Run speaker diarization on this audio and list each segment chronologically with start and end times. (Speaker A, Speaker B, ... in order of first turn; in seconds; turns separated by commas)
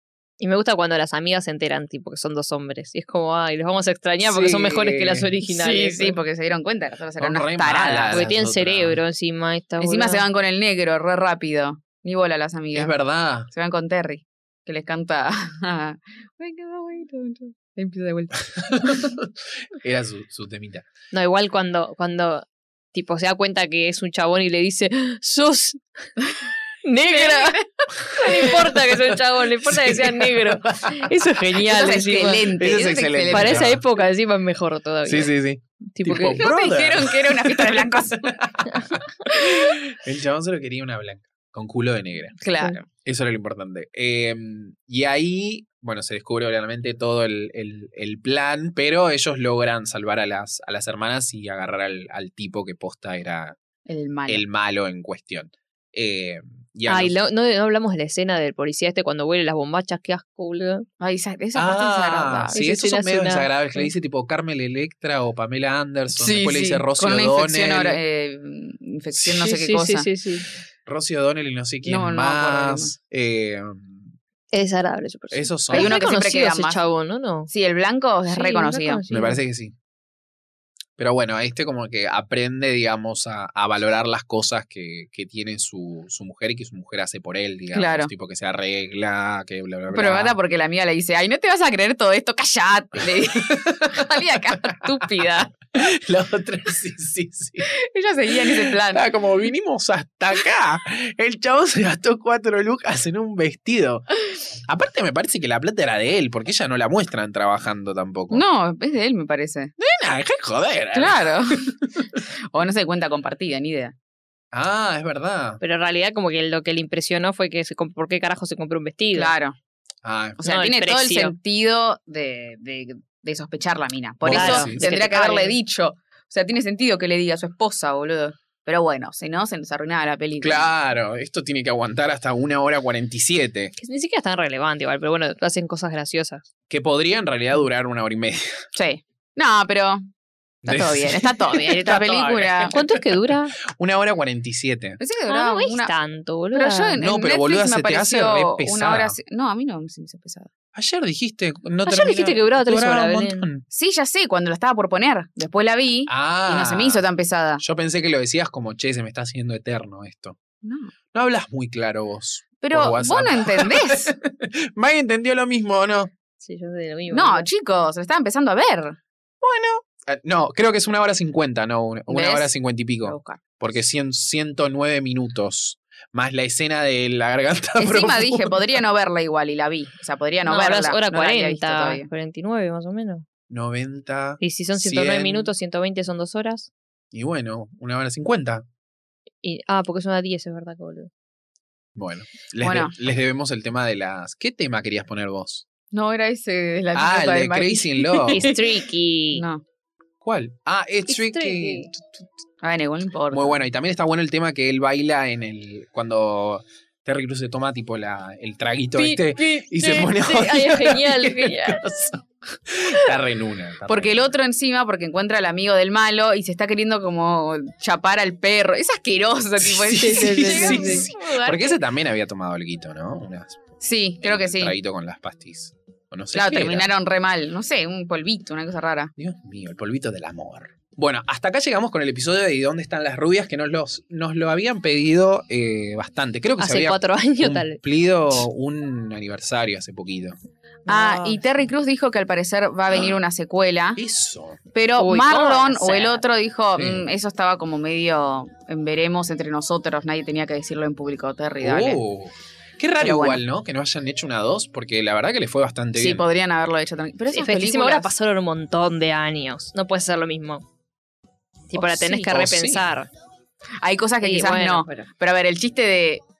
Speaker A: 0.4-6.2, Speaker B: 4.2-5.3, Speaker C: 5.5-8.2, Speaker B: 7.2-9.0, Speaker A: 8.1-10.3, Speaker C: 9.8-12.9, Speaker B: 12.7-13.5, Speaker C: 13.5-19.1, Speaker B: 18.6-20.9, Speaker A: 21.1-25.8, Speaker A: 26.8-32.5, Speaker C: 27.1-28.6, Speaker B: 28.4-31.1, Speaker C: 31.6-33.7, Speaker B: 32.6-33.8, Speaker A: 33.3-35.3, Speaker B: 35.1-42.4, Speaker A: 35.9-36.5, Speaker C: 36.1-38.4, Speaker C: 39.3-39.8, Speaker C: 42.4-42.9, Speaker B: 42.9-53.6, Speaker C: 53.9-54.5, Speaker B: 54.3-57.2, Speaker A: 56.9-60.9, Speaker C: 61.0-62.6, Speaker B: 61.5-68.0, Speaker A: 62.5-63.9, Speaker C: 66.2-70.1, Speaker A: 69.4-70.5, Speaker B: 70.9-74.1, Speaker C: 71.8-72.9, Speaker A: 74.5-77.5, Speaker B: 75.3-76.0, Speaker C: 75.7-76.8, Speaker C: 77.5-79.0, Speaker A: 78.3-79.4, Speaker B: 79.1-79.8, Speaker B: 81.0-90.4, Speaker C: 87.7-88.1, Speaker C: 89.9-95.5, Speaker B: 93.5-94.1, Speaker B: 95.7-97.7, Speaker C: 97.7-99.1, Speaker B: 98.3-104.1, Speaker B: 104.7-108.4, Speaker C: 108.3-109.7, Speaker B: 109.8-112.1, Speaker C: 111.0-111.7, Speaker C: 112.5-113.9, Speaker B: 114.5-115.6, Speaker A: 115.6-119.3, Speaker C: 119.1-119.6, Speaker B: 120.0-120.4, Speaker C: 120.4-130.7, Speaker A: 120.4-121.3, Speaker B: 124.2-124.9, Speaker A: 124.3-125.6, Speaker B: 130.4-133.7, Speaker A: 133.8-136.5, Speaker B: 136.7-138.7, Speaker C: 138.8-140.1, Speaker C: 140.6-142.8, Speaker B: 140.6-145.0, Speaker A: 142.7-143.6, Speaker C: 145.0-145.9, Speaker A: 145.3-147.0, Speaker C: 146.5-150.5, Speaker B: 147.0-149.2, Speaker B: 150.7-153.6, Speaker A: 151.9-153.5, Speaker C: 153.7-157.6, Speaker B: 156.1-157.1, Speaker B: 157.6-160.4, Speaker C: 160.6-160.9, Speaker B: 161.1-166.1, Speaker C: 162.6-164.1, Speaker A: 166.4-167.5, Speaker C: 167.1-169.0, Speaker B: 169.4-178.8, Speaker C: 172.1-172.5, Speaker C: 173.0-173.4, Speaker C: 177.8-182.1, Speaker A: 180.4-183.3, Speaker B: 183.5-185.5, Speaker A: 184.4-186.7, Speaker B: 187.1-188.7, Speaker A: 189.4-191.1, Speaker B: 192.0-195.7, Speaker C: 192.6-192.9, Speaker C: 195.9-198.5, Speaker B: 196.9-198.5, Speaker A: 198.3-199.4, Speaker C: 199.3-199.6, Speaker B: 200.2-202.3, Speaker A: 201.1-201.9, Speaker C: 202.6-203.6, Speaker B: 203.3-214.3, Speaker A: 209.0-211.8, Speaker C: 213.9-221.8, Speaker B: 219.6-223.6, Speaker A: 220.0-221.1, Speaker C: 223.8-224.8, Speaker B: 224.2-226.9, Speaker C: 226.3-229.1, Speaker B: 229.2-240.4, Speaker A: 236.6-237.8, Speaker A: 240.9-241.4, Speaker C: 240.9-244.0, Speaker B: 244.0-244.6, Speaker C: 244.7-252.0, Speaker A: 245.0-246.2, Speaker B: 246.8-247.1, Speaker B: 251.6-256.2, Speaker C: 253.0-253.4, Speaker C: 256.0-258.1, Speaker A: 257.3-260.6, Speaker A: 261.7-263.1, Speaker B: 261.7-262.9, Speaker C: 263.8-266.2, Speaker A: 264.2-265.1